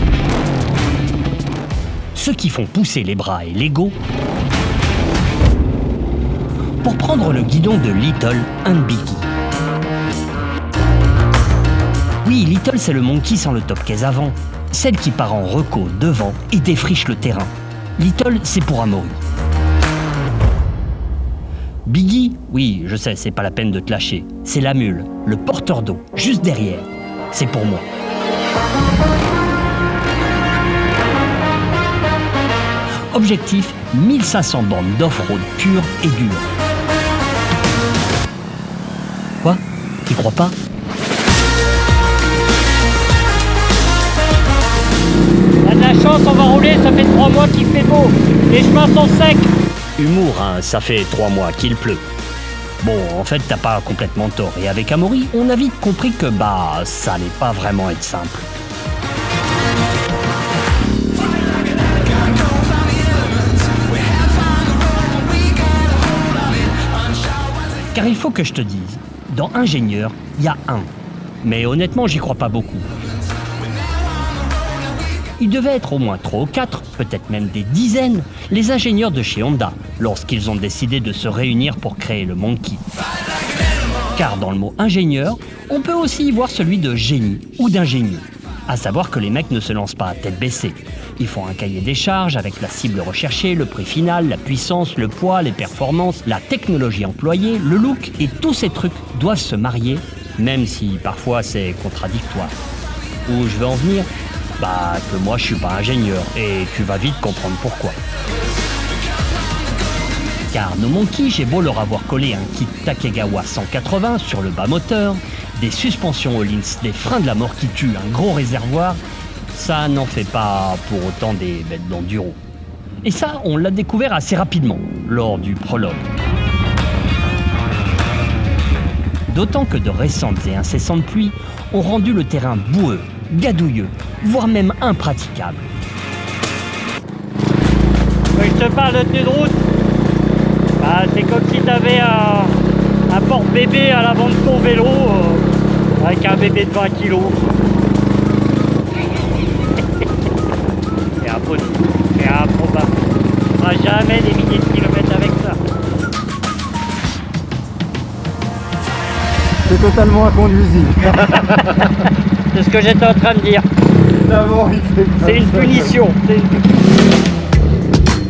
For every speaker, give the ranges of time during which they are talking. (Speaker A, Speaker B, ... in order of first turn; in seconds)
Speaker A: 2.1-4.0, 6.8-9.3, 12.2-19.2, 21.9-27.9, 33.1-36.5, 39.4-40.5, 50.0-52.0, 52.8-58.5, 67.9-70.9, 71.4-72.9, 75.4-82.8, 84.1-102.6, 103.2-108.0, 110.5-119.0, 119.5-122.4, 123.0-126.1, 129.3-135.7
Speaker B: 45.6-49.5, 138.4-139.6, 140.8-142.6, 143.1-145.4, 146.0-147.4, 151.2-152.9, 153.6-155.6, 162.5-163.6, 165.2-166.8
Speaker C: 159.7-161.9, 164.2-165.9